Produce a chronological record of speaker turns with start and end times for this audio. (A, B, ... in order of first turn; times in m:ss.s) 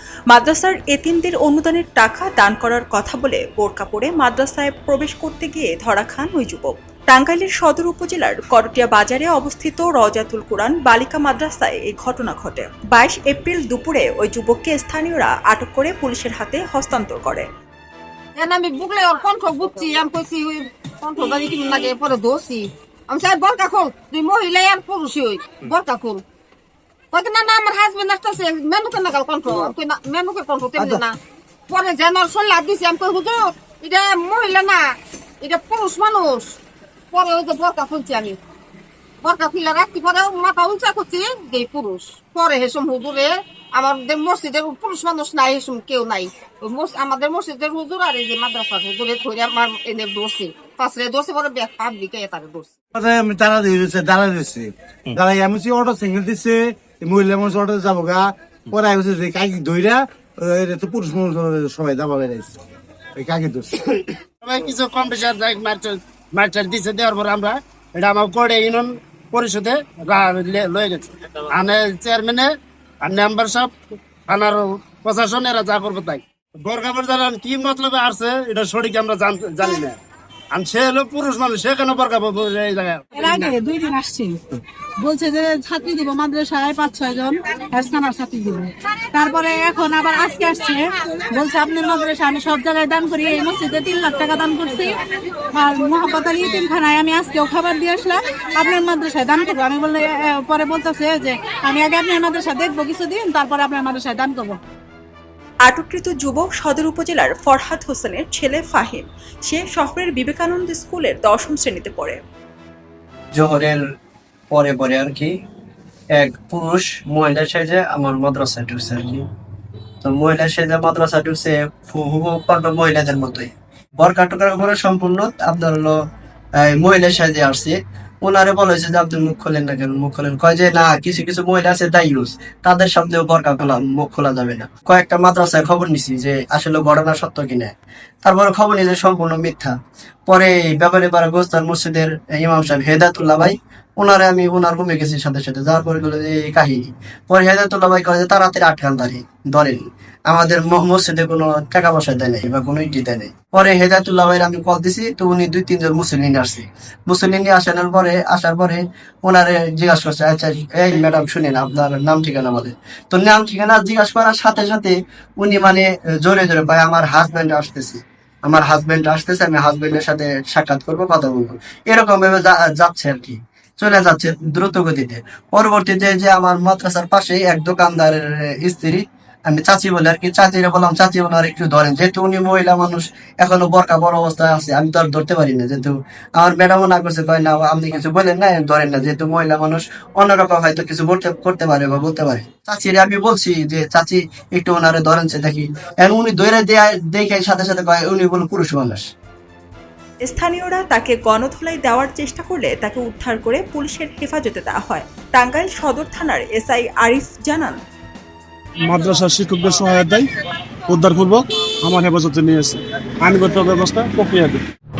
0:00.3-0:17.4 A
0:18.4-0:26.2 B
0:27.1-0:31.2 B
0:31.7-0:36.6 B
0:37.1-0:38.4 B
0:39.2-0:52.7 B
0:52.9-1:02.5 C
1:03.2-1:03.8 C
1:04.4-1:12.5 D
1:13.0-1:13.7 D
1:14.3-1:20.0 D
1:20.5-1:23.5 D
1:23.2-1:24.4 E
1:25.0-1:35.0 E
1:35.6-1:44.6 E
1:45.6-1:52.2 A
1:53.3-1:53.8 F
1:54.5-1:55.3 F
1:56.2-1:59.2 F
2:00.0-2:06.0 F
2:06.6-2:17.7 F
2:18.2-2:19.7 F
2:20.3-3:19.1 F
3:20.2-3:27.8 A
3:29.0-3:30.2 G
3:30.9-3:31.3 G
3:32.0-3:32.8 G
3:33.4-3:34.6 G